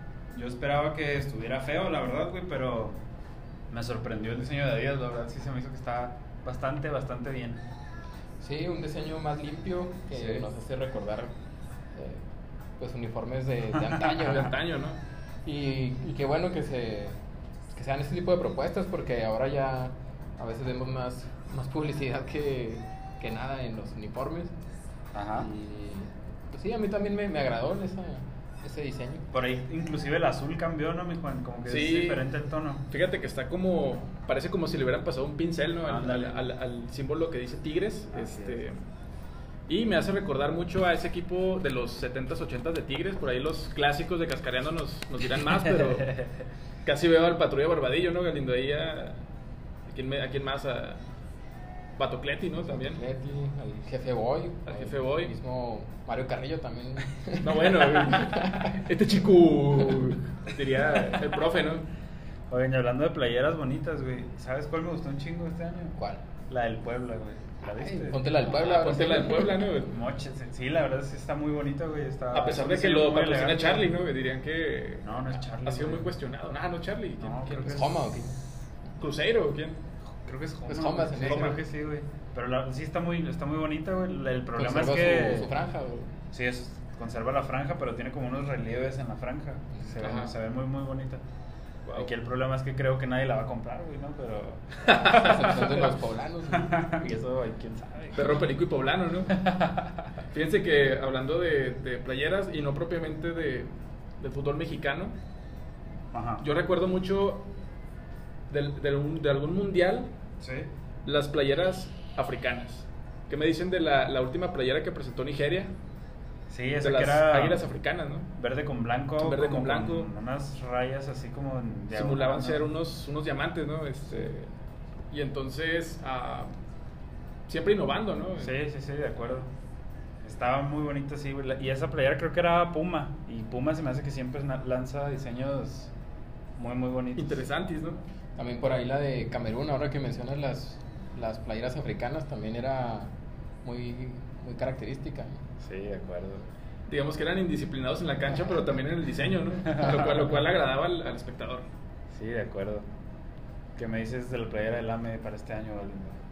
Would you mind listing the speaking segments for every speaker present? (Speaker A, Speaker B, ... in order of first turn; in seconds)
Speaker A: 0.3-3.0, 3.7-7.7, 10.1-10.5, 25.1-25.5, 29.3-32.9, 35.9-36.4, 38.1-38.6, 45.7-46.3, 62.5-66.0, 66.5-68.4, 69.8-74.0, 75.0-76.1, 77.2-77.9, 80.2-85.5, 86.3-91.2, 91.9-95.8, 96.5-98.3, 99.3-100.1, 106.1-106.5, 110.4-110.7, 116.5-117.7, 118.4-122.7, 128.4-129.5, 130.2-135.9, 136.6-137.4, 145.6-146.5, 149.7-150.1, 152.1-152.9, 153.8-156.2
Speaker B: 8.4-11.3, 11.9-12.2, 12.8-14.6, 15.4-17.2, 17.7-24.5, 25.3-29.3, 52.7-58.7, 66.0-66.2, 67.6-69.7, 77.6-78.4, 80.7-81.6, 84.5-86.1, 95.0-96.9, 138.4-143.1, 143.6-145.4
Speaker C: 14.1-15.0, 31.7-32.2, 32.9-38.8, 39.7-46.2, 46.8-49.2, 49.9-51.0, 52.0-53.0, 54.7-55.3, 57.4-61.9, 68.4-69.9, 72.3-77.9, 79.0-79.8, 81.2-81.6, 90.0-90.3, 91.9-92.1, 94.9-95.4, 98.2-99.4, 100.3-105.1, 106.4-107.5, 108.5-110.1, 111.0-115.7, 116.8-118.3, 119.2-120.1, 121.9-124.5, 125.1-126.5, 127.5-128.5, 137.2-138.0, 146.9-151.7